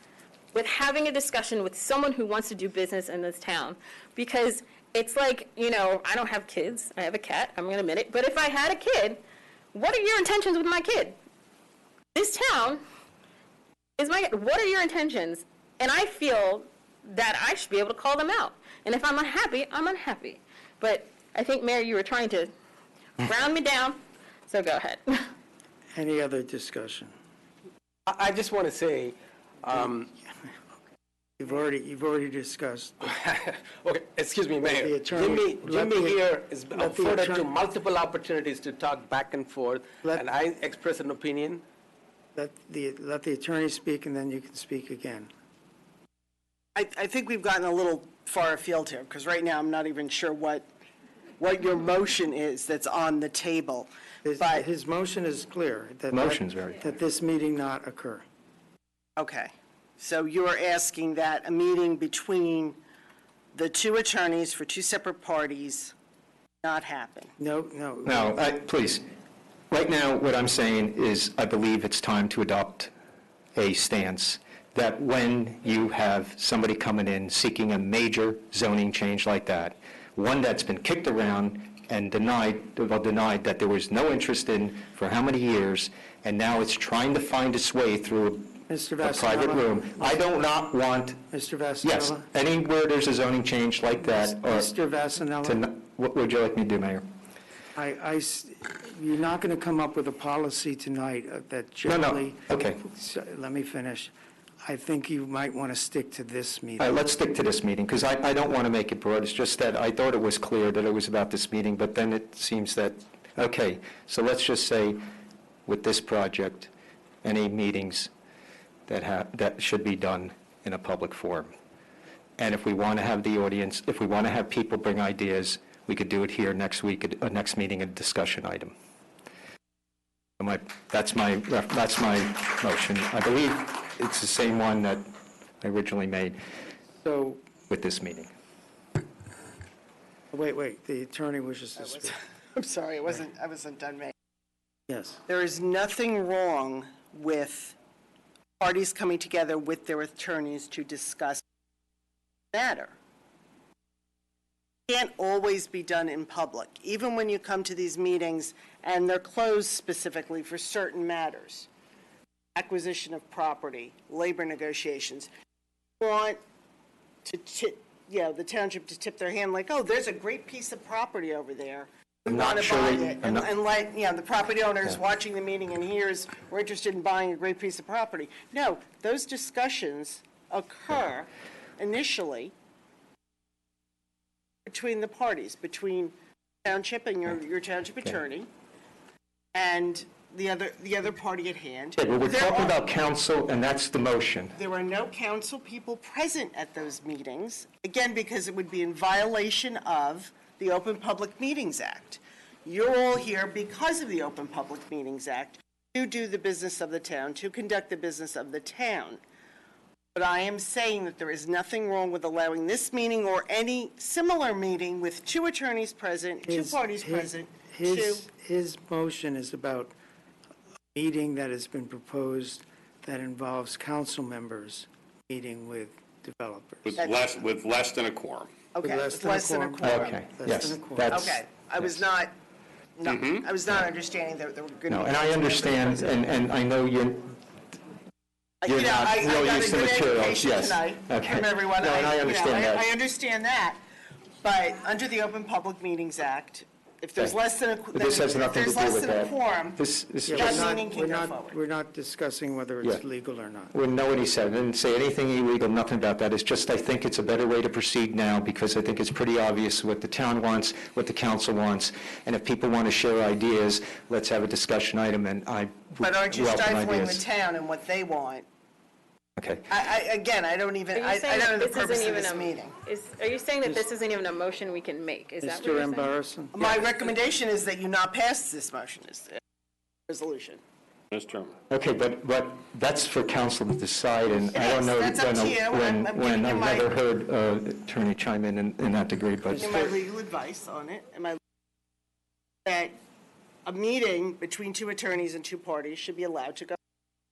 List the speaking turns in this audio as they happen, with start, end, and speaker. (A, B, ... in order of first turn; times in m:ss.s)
0:00.5-0:09.2 A
0:09.7-0:11.2 A
0:12.1-0:12.8 A
0:14.0-0:22.5 A
0:23.2-0:25.3 A
0:25.9-0:27.2 B
0:28.1-0:30.1 C
0:31.4-0:33.0 B
0:33.0-0:41.6 C
0:34.6-0:37.5 B
0:42.4-0:45.3 B
0:46.8-0:50.7 D
0:51.4-0:54.7 D
0:54.2-0:58.2 B
0:56.1-0:56.9 E
0:59.2-1:02.8 D
1:03.5-1:05.9 D
1:06.6-1:07.3 D
1:07.4-1:08.4 B
1:08.1-1:09.0 E
1:09.7-1:12.9 E
1:13.6-1:31.2 E
1:28.7-1:30.2 B
1:31.3-1:32.2 B
1:31.8-1:34.7 E
1:34.0-1:35.6 B
1:35.4-1:37.0 E
1:37.8-1:47.1 B
1:41.9-1:42.8 E
1:46.8-1:55.0 E
1:55.7-1:56.7 E
1:57.2-1:58.1 E
1:58.9-2:01.5 E
2:02.4-2:08.7 E
2:10.4-2:15.0 E
2:15.6-2:16.4 E
2:17.0-2:17.4 B
2:17.7-2:18.3 E
2:20.3-2:22.2 B
2:21.9-2:24.1 D
2:24.9-2:25.2 B
2:25.3-2:27.8 D
2:28.6-2:31.4 D
2:32.5-2:33.0 D
2:34.9-2:41.7 D
2:42.6-2:45.3 D
2:46.0-2:46.4 D
2:47.2-3:02.5 D
2:52.3-2:53.5 E
3:04.7-3:08.5 D
3:09.5-3:12.8 D
3:12.0-3:14.5 E
3:14.5-3:29.2 D
3:30.2-3:38.3 D
3:36.4-3:39.9 B
3:41.0-3:47.0 B
3:46.8-3:48.5 F
3:48.7-3:50.2 D
3:48.8-3:51.2 B
3:49.8-3:51.4 E
3:51.1-3:52.3 D
3:53.0-3:56.2 D
3:53.0-3:53.5 F
3:54.9-3:57.4 E
3:58.6-4:03.8 D
3:58.7-4:02.9 E
4:04.4-4:09.8 D
4:07.9-4:10.7 E
4:10.2-4:13.7 B
4:10.4-4:11.6 D
4:13.7-4:27.2 E
4:26.0-4:28.5 D
4:29.4-4:29.7 E
4:29.7-4:32.8 D
4:30.9-4:36.1 A
4:35.4-4:36.6 B
4:36.5-4:39.4 D
4:36.6-4:36.9 A
4:40.1-4:40.6 D
4:41.1-4:41.6 F
4:41.7-4:49.8 E
4:44.5-4:46.9 D
4:49.5-4:49.8 B
4:49.6-4:51.4 D
4:52.6-4:53.0 D
4:53.7-4:56.8 D